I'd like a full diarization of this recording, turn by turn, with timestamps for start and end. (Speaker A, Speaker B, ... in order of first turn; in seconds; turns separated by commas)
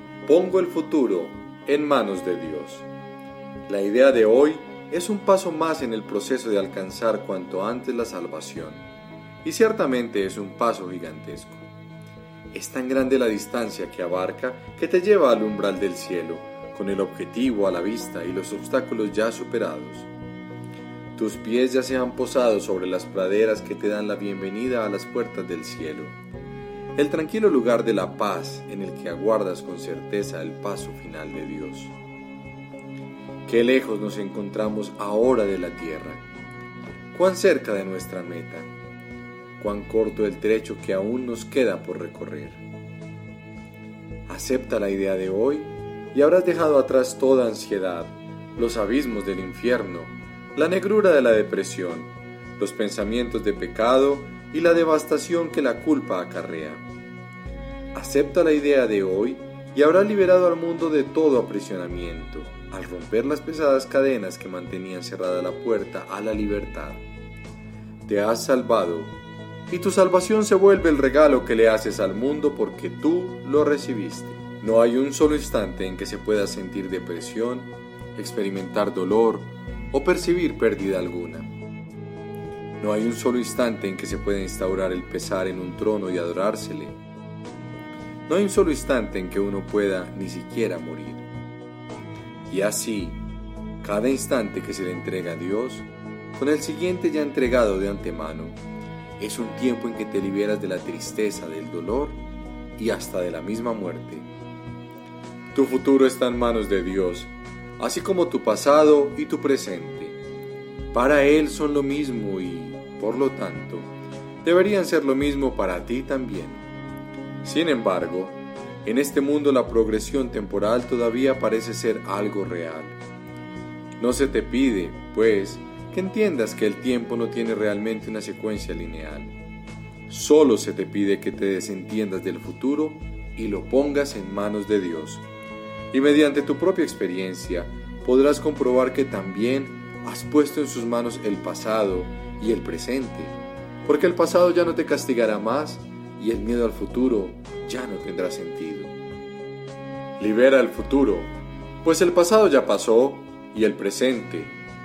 Speaker A: 0.2-2.9, Speaker A: 3.7-8.8, Speaker A: 9.4-11.7, Speaker A: 12.5-20.1, Speaker A: 21.2-26.1, Speaker A: 27.0-31.9, Speaker A: 33.5-36.2, Speaker A: 37.1-38.7, Speaker A: 39.6-42.6, Speaker A: 44.3-56.9, Speaker A: 57.9-67.0, Speaker A: 68.1-69.2, Speaker A: 69.7-81.5, Speaker A: 82.8-87.0, Speaker A: 88.3-91.2, Speaker A: 92.5-93.2, Speaker A: 93.8-98.6, Speaker A: 99.2-102.2, Speaker A: 102.8-104.3, Speaker A: 105.5-110.2, Speaker A: 110.9-113.9, Speaker A: 114.4-116.7, Speaker A: 117.4-123.0, Speaker A: 124.0-129.3, Speaker A: 130.1-135.2, Speaker A: 135.9-148.9, Speaker A: 150.2-154.5